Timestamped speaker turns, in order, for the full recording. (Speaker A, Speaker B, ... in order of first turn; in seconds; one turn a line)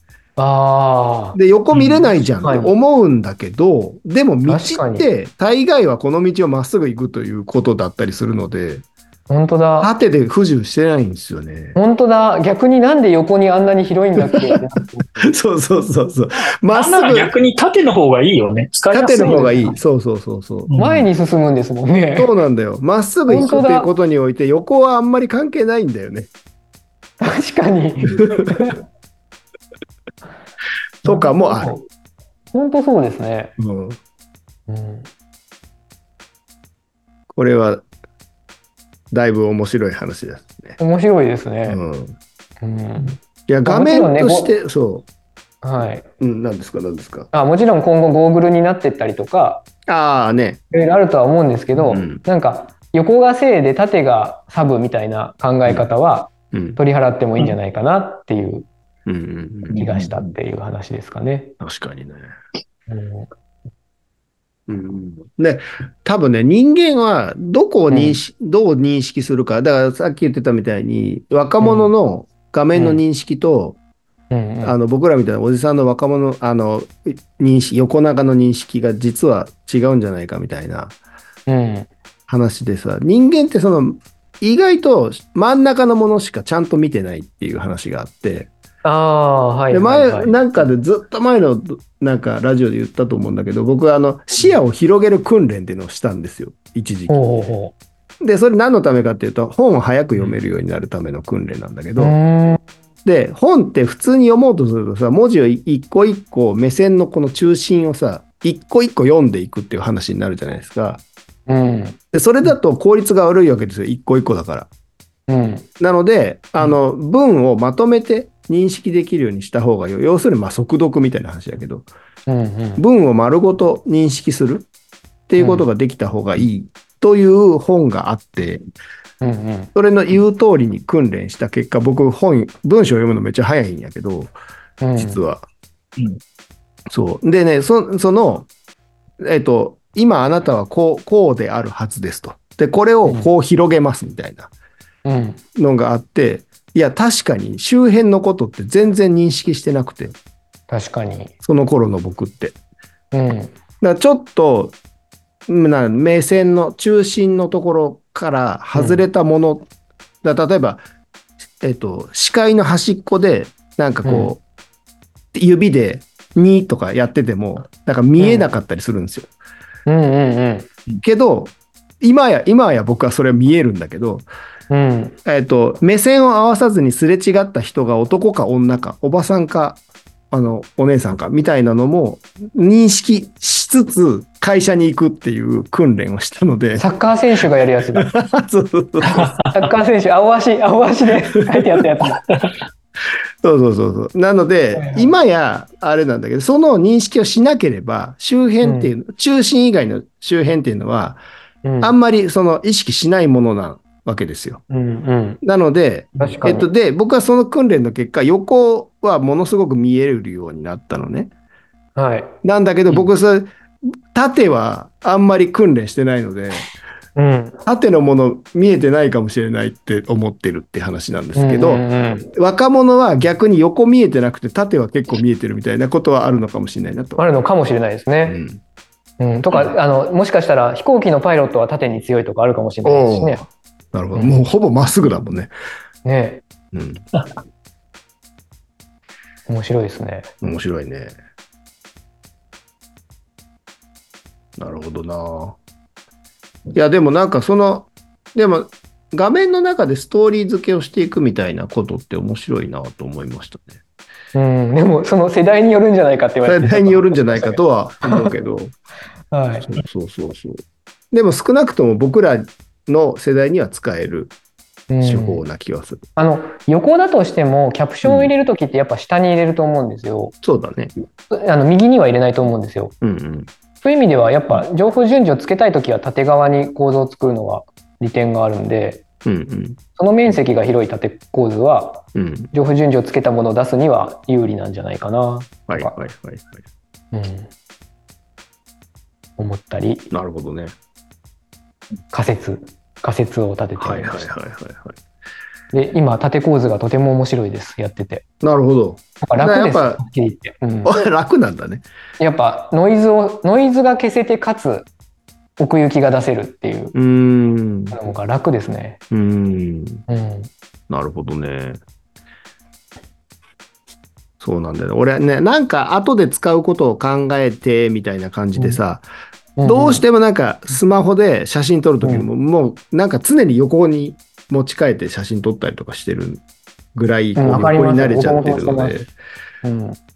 Speaker A: 0.4-2.7
Speaker B: 1.3-8.8
Speaker A: 4.5-5.1
Speaker A: 9.3-9.9
Speaker B: 9.8-11.8
Speaker A: 11.8-15.3
Speaker B: 15.2-17.4
Speaker C: 16.7-19.7
Speaker B: 18.9-20.8
Speaker A: 19.1-19.8
Speaker C: 20.7-21.1
Speaker A: 20.8-22.3
Speaker B: 22.1-26.3
Speaker A: 23.3-23.9
Speaker A: 27.2-28.8
Speaker B: 31.0-31.7
Speaker A: 31.0-31.9
Speaker A: 32.5-33.5
Speaker B: 33.6-34.0
Speaker A: 34.7-35.1
Speaker B: 37.3-37.8
Speaker B: 39.1-40.8
Speaker A: 40.8-41.8
Speaker B: 41.6-42.2
Speaker A: 42.6-44.5
Speaker B: 43.5-45.0
Speaker A: 45.6-46.1
Speaker B: 46.2-47.3
Speaker A: 47.3-49.6
Speaker B: 49.9-50.6
Speaker A: 50.7-58.7
Speaker B: 51.7-52.2
Speaker B: 56.5-56.8
Speaker B: 59.0-59.9
Speaker A: 59.7-61.5
Speaker B: 61.6-62.3
Speaker A: 62.9-63.3
Speaker B: 64.7-73.8
Speaker A: 67.9-68.2
Speaker A: 71.6-71.9
Speaker A: 72.7-73.0
Speaker A: 74.3-74.8
Speaker B: 74.6-81.0
Speaker A: 81.5-81.9
Speaker B: 82.3-88.5
Speaker A: 88.8-90.7
Speaker B: 89.7-97.2
Speaker A: 97.1-97.7
Speaker B: 98.2-102.2
Speaker A: 102.0-102.6
Speaker B: 103.0-111.0
Speaker A: 111.5-112.5
Speaker B: 112.1-114.7
Speaker A: 115.3-115.7
Speaker B: 115.8-121.9
Speaker A: 122.3-122.8
Speaker B: 122.8-124.7
Speaker B: 125.3-128.6
Speaker A: 125.4-125.7
Speaker A: 129.2-129.7
Speaker B: 129.7-134.3
Speaker A: 134.8-135.2
Speaker B: 134.9-135.4
Speaker B: 136.9-138.5
Speaker B: 139.2-144.5
Speaker A: 145.0-145.4
Speaker B: 145.6-150.1
Speaker A: 150.7-151.3
Speaker B: 151.4-152.6
Speaker A: 153.1-153.6
Speaker B: 153.8-154.8
Speaker B: 155.5-159.7
Speaker A: 158.7-159.1
Speaker B: 160.2-160.8
Speaker B: 161.6-164.4
Speaker A: 164.0-164.3
Speaker B: 165.3-169.3
Speaker A: 168.2-168.5
Speaker A: 169.8-170.7
Speaker B: 171.0-174.3
Speaker A: 174.7-175.2
Speaker B: 175.2-186.9
Speaker A: 186.8-188.1
Speaker B: 187.9-189.3
Speaker C: 189.1-189.4
Speaker A: 189.5-192.2
Speaker B: 191.5-191.8
Speaker C: 192.3-192.6
Speaker B: 193.4-201.2
Speaker A: 194.7-195.1
Speaker A: 198.6-198.9
Speaker A: 201.6-201.9
Speaker B: 201.8-204.6
Speaker A: 204.7-205.4
Speaker B: 205.4-211.3
Speaker A: 206.2-206.7
Speaker A: 211.9-212.3
Speaker B: 212.4-213.5
Speaker B: 214.1-216.7
Speaker A: 217.2-217.6
Speaker B: 217.7-221.8
Speaker A: 221.3-222.3
Speaker B: 222.3-227.2
Speaker A: 227.2-228.4
Speaker B: 228.2-228.6
Speaker A: 229.2-233.4
Speaker B: 232.8-235.5
Speaker A: 236.0-236.4
Speaker B: 236.7-237.0
Speaker A: 239.5-240.3
Speaker B: 240.4-241.2
Speaker B: 244.6-245.6
Speaker B: 246.7-253.8
Speaker A: 254.3-258.3
Speaker B: 256.4-258.7
Speaker A: 259.3-259.7
Speaker B: 259.7-264.3
Speaker A: 264.9-265.4
Speaker B: 265.0-266.0
Speaker A: 266.1-270.3
Speaker B: 268.0-268.3
Speaker B: 270.4-270.9
Speaker A: 271.3-272.9
Speaker B: 273.0-273.5
Speaker A: 273.8-279.0
Speaker B: 279.2-279.8
Speaker A: 279.9-286.0
Speaker B: 282.1-282.5
Speaker B: 285.7-286.6
Speaker A: 287.1-287.5
Speaker A: 289.4-290.1
Speaker B: 290.1-290.7
Speaker A: 292.1-294.3
Speaker B: 293.8-295.0
Speaker A: 295.7-298.2
Speaker B: 298.4-300.0
Speaker A: 299.2-301.0
Speaker B: 300.9-301.8
Speaker A: 302.2-304.9
Speaker A: 305.6-306.9
Speaker B: 306.9-308.0
Speaker A: 307.9-309.0
Speaker B: 309.1-310.0
Speaker A: 310.1-310.5
Speaker B: 310.9-311.8
Speaker B: 314.4-319.1
Speaker A: 319.6-320.0
Speaker B: 319.6-326.4
Speaker B: 326.9-329.1
Speaker A: 327.4-329.0
Speaker A: 329.6-330.0